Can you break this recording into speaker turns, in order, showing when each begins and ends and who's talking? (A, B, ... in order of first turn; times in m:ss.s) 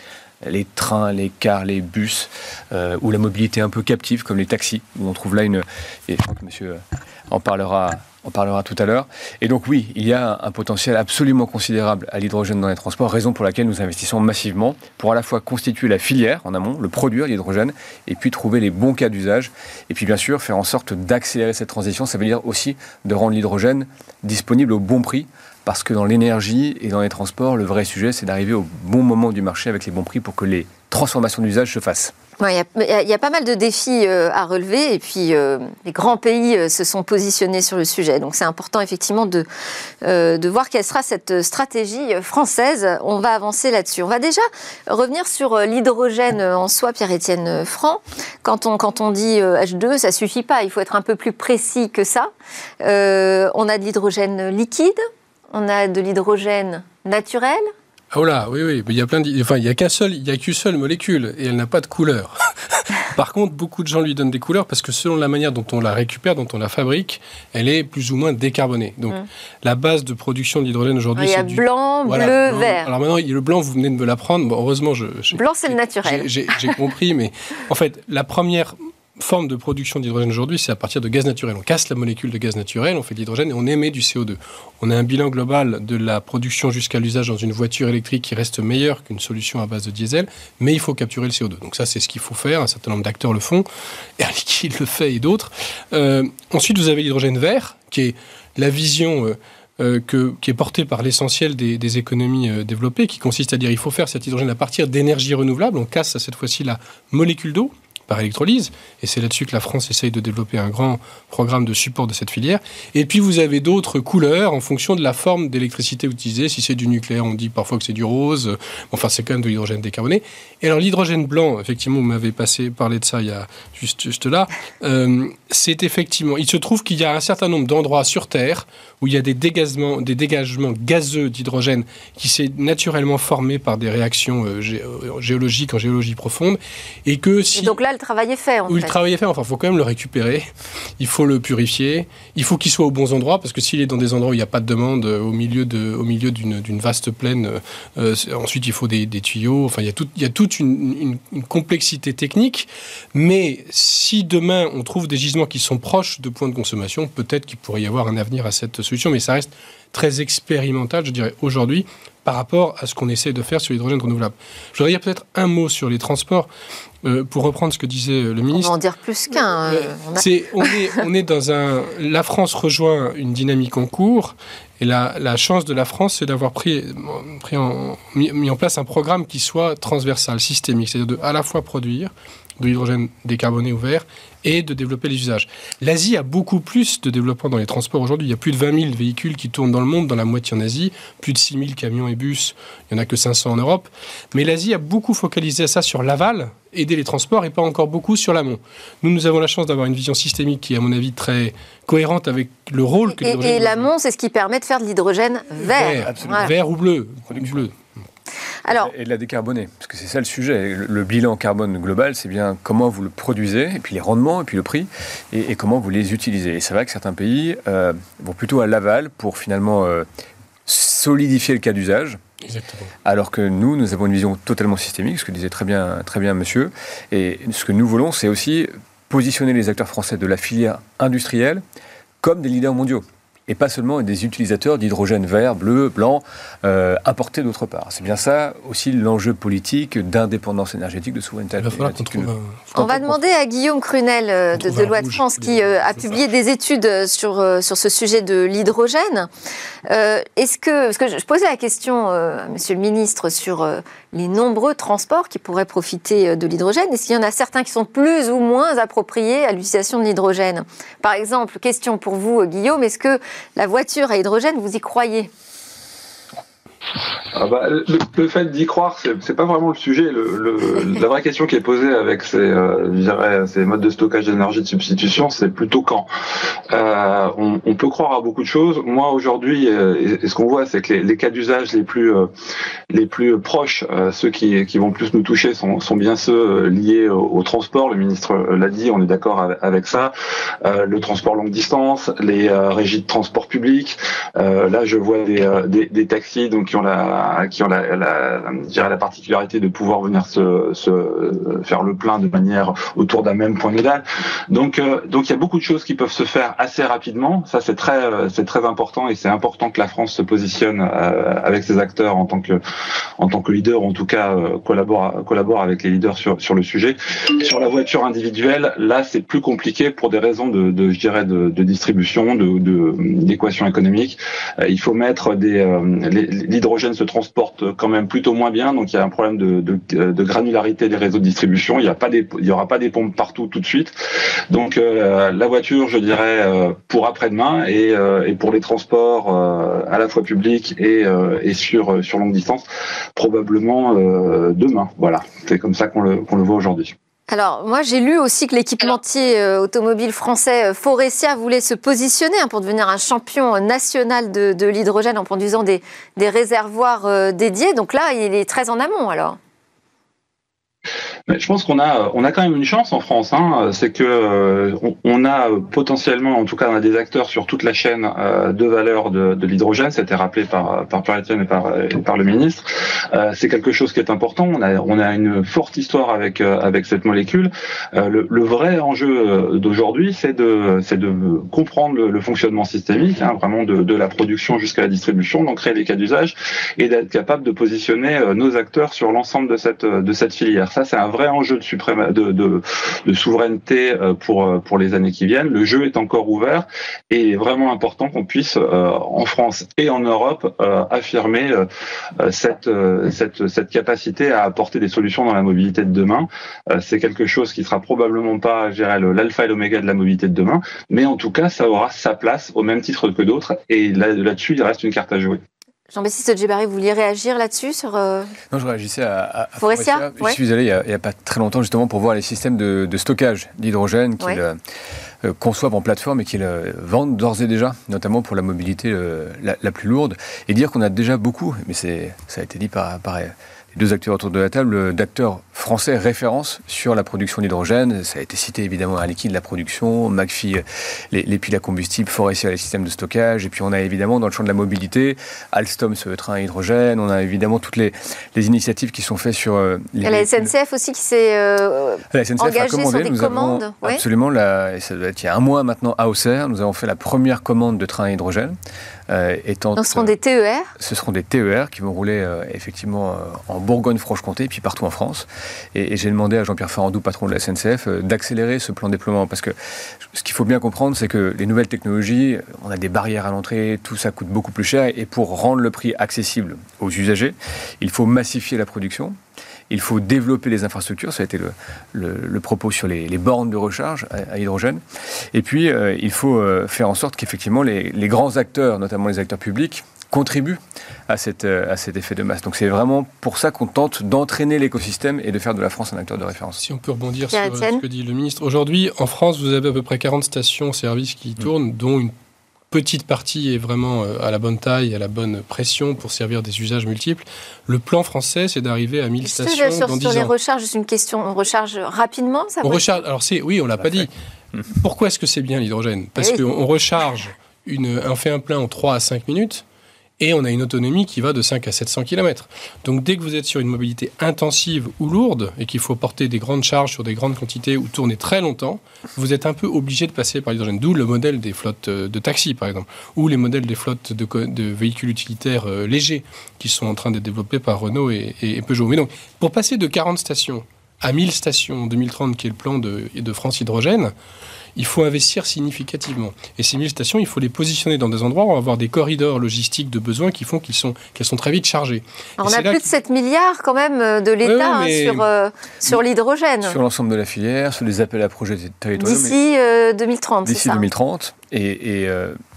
0:00.4-0:32.1 A
0:32.4-0:39.5 B
0:40.0-0:52.3 B
0:52.8-0:55.0 B
0:55.5-0:57.7 B
0:58.1-1:33.7 C
1:11.2-1:12.9 B
1:15.3-1:16.8 B
1:34.2-2:17.8 C
2:17.6-2:19.0 B
2:18.7-2:20.5 C
2:21.0-2:46.5 C
2:47.0-2:48.8 C
2:48.5-2:51.0 B
2:49.4-3:23.9 C
3:23.1-3:26.5 B
3:25.6-3:27.8 C
3:26.1-3:26.6 A
3:27.3-3:27.7 A
3:28.6-3:28.9 B
3:28.7-3:40.1 A
3:40.7-3:42.2 A
3:42.5-3:42.9 C
3:43.0-3:51.6 A
3:52.2-4:02.3 A
4:01.6-4:03.3 C
4:02.8-4:09.3 B
4:04.5-4:06.2 C
4:09.9-4:25.3 B
4:27.3-4:36.1 D
4:36.7-4:42.3 D
4:42.9-4:50.1 D
4:50.6-5:12.6 D
5:13.2-5:33.9 D
5:34.5-5:46.9 D
5:47.3-5:59.4 B
6:01.3-6:41.7 D
6:42.2-6:55.4 D
6:55.9-6:58.3 B
6:58.5-7:04.6 A
6:59.6-7:00.4 B
7:05.2-7:30.5 A
7:30.0-7:34.0 B
7:32.1-7:38.6 A
7:39.1-7:40.2 A
7:39.8-7:40.7 B
7:40.8-7:49.6 A
7:50.1-7:59.2 A
7:59.7-8:16.6 A
8:16.6-8:22.1 C
8:17.3-8:17.8 B
8:22.7-8:30.3 C
8:29.2-8:33.0 B
8:32.6-8:34.1 C
8:34.7-8:39.6 C
8:40.2-9:04.1 C
9:04.8-9:12.9 C
9:12.4-9:16.8 B
9:14.4-9:15.3 C
9:16.6-9:19.4 A
9:19.0-9:20.9 B
9:20.4-9:22.4 A